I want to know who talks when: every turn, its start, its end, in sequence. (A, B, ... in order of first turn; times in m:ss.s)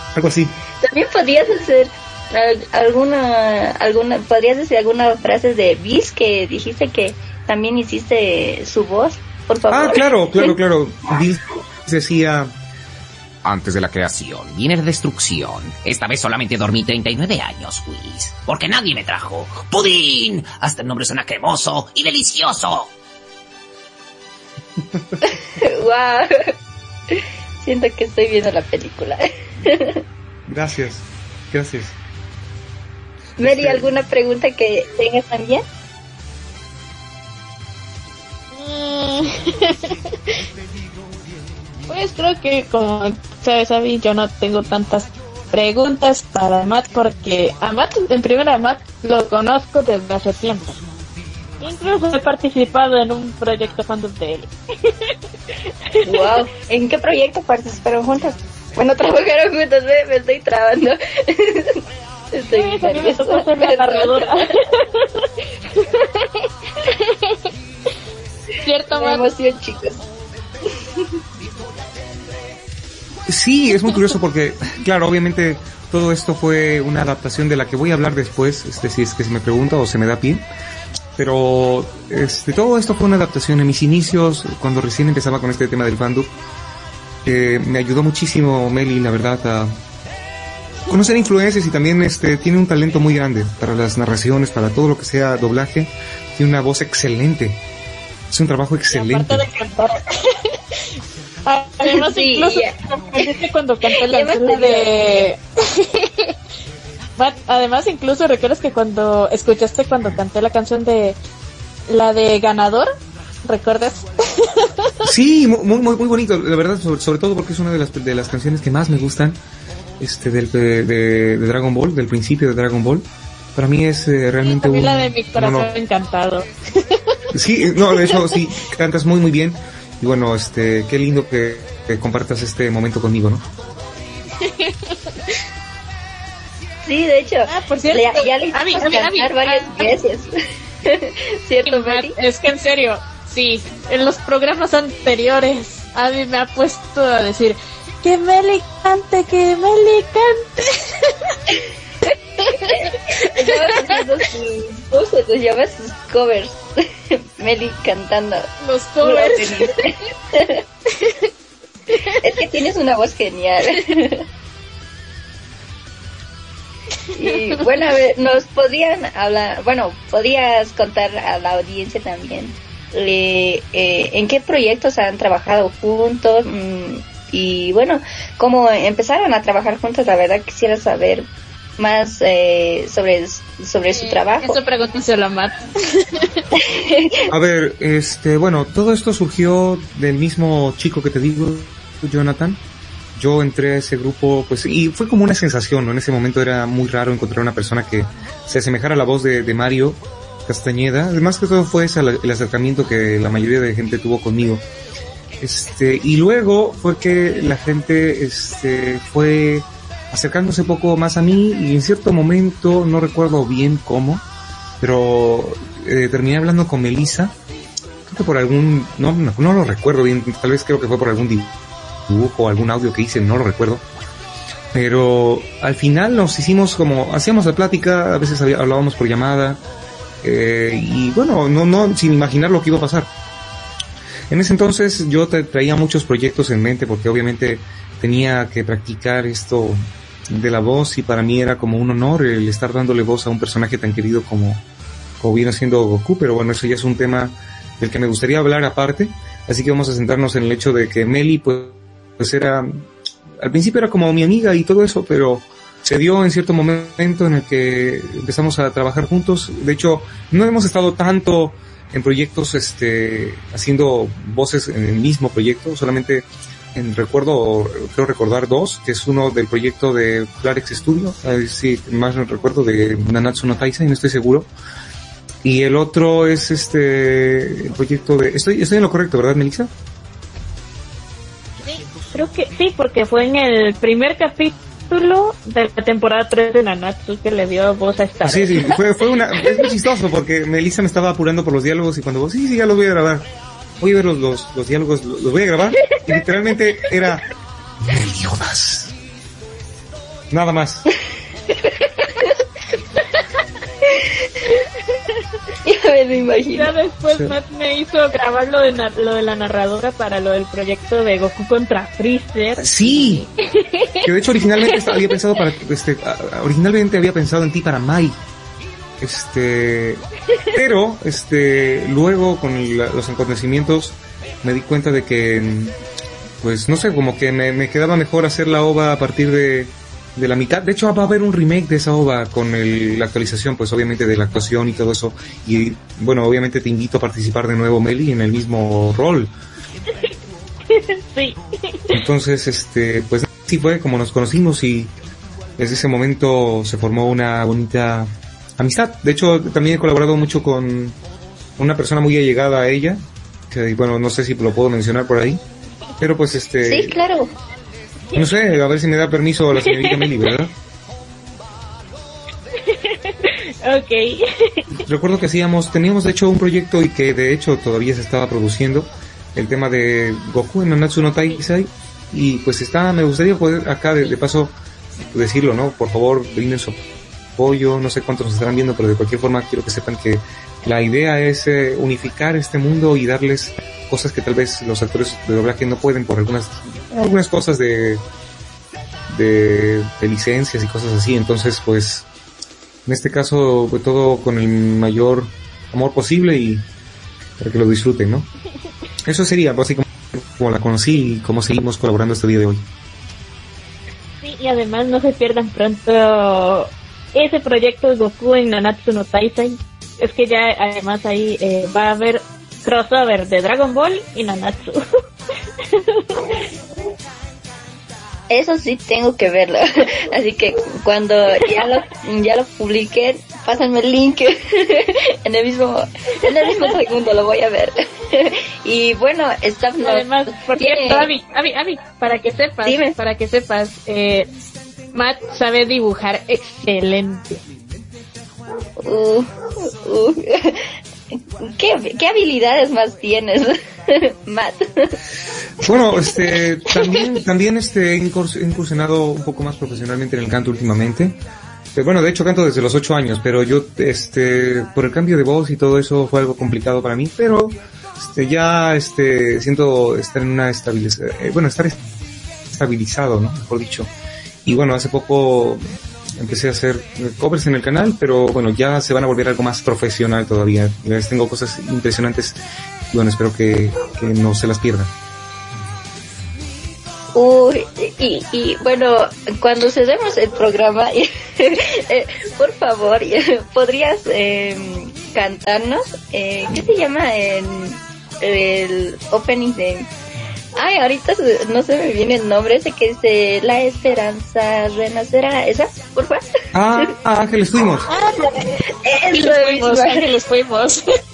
0:00.1-0:00.6 A
0:00.8-0:10.1 B
0:09.7-0:12.5 A
0:13.4-0:22.9 C
0:25.2-0:26.5 B
0:27.1-0:30.0 B
0:30.5-0:32.0 A
0:33.4-0:35.6 B
0:33.4-0:33.9 A
0:38.5-0:40.4 D
0:41.9-0:50.8 D
0:51.6-0:55.1 D
0:56.0-0:56.4 D
0:56.0-1:01.8 B
1:02.3-1:04.5 B
1:02.5-1:07.4 D
1:08.6-1:09.3 D
1:08.9-1:10.0 B
1:13.3-1:20.4 A
1:21.2-1:26.3 A
1:27.2-1:29.8 A
1:30.9-1:37.6 A
1:38.3-1:39.4 A
1:38.9-1:40.6 D
1:41.5-1:46.4 D
1:41.8-1:44.9 B
1:47.2-1:51.2 D
1:51.9-1:55.0 D
1:55.0-1:59.4 A
2:00.0-2:05.7 A
2:04.4-2:07.2 D
2:07.3-2:13.4 A
2:07.8-2:08.3 D
2:14.4-2:15.4 D
2:16.8-2:20.3 B
2:17.5-2:20.0 D
2:20.9-2:22.2 B
2:21.6-2:31.3 D
2:32.5-2:34.0 D
2:32.5-2:38.5 B
2:38.6-2:39.9 D
2:39.0-2:40.6 B
2:41.0-2:41.3 D
2:42.2-2:44.2 B
2:47.1-3:01.3 B
2:47.2-2:47.6 D
3:01.8-3:04.6 B
3:03.9-3:06.4 D
3:06.6-3:07.1 B
3:07.3-3:12.6 A
3:13.2-3:24.6 A
3:25.4-3:34.2 A
3:34.8-3:37.4 A
3:38.1-3:43.8 A
3:44.7-3:49.6 A
3:50.2-3:53.1 A
3:54.3-4:04.6 A
4:05.2-4:12.9 A
4:13.4-4:34.5 A
4:35.4-4:39.7 A
4:41.7-4:48.8 D
4:48.2-4:53.3 A
4:53.8-4:57.3 A
4:57.8-4:58.9 A
5:00.3-5:00.8 A
5:05.6-5:06.7 B
5:06.5-5:14.1 D
5:12.6-5:13.3 A
5:14.0-5:18.2 A
5:14.6-5:15.2 D
5:19.0-5:25.8 A
5:26.4-5:39.3 A
5:40.7-5:42.0 D
5:41.9-5:44.9 A
5:45.6-5:51.0 A
5:51.6-5:55.4 A
5:56.0-5:57.0 A
5:56.6-5:57.3 B
5:58.2-6:00.5 A
5:59.6-6:00.2 D
6:02.6-6:04.8 D
6:04.9-6:14.5 A
6:15.1-6:16.8 A
6:17.4-6:28.0 A
6:29.1-6:32.1 A
6:32.9-6:36.6 A
6:37.4-6:38.3 A
6:39.0-6:42.7 A
6:44.2-6:54.8 D
6:55.7-6:56.4 D
6:58.3-7:11.1 B
7:09.8-7:14.3 D
7:12.6-7:13.0 B
7:14.9-7:17.4 D
7:18.8-7:20.6 B
7:21.4-7:25.0 B
7:25.6-7:31.2 A
7:31.8-7:41.8 A
7:42.5-7:43.9 A
7:44.4-7:45.6 A
7:46.2-7:54.9 A
7:57.2-8:09.9 B
8:10.6-8:16.3 B
8:16.5-8:17.9 A
8:17.9-8:18.4 D
8:18.2-8:20.1 B
8:19.1-8:20.8 D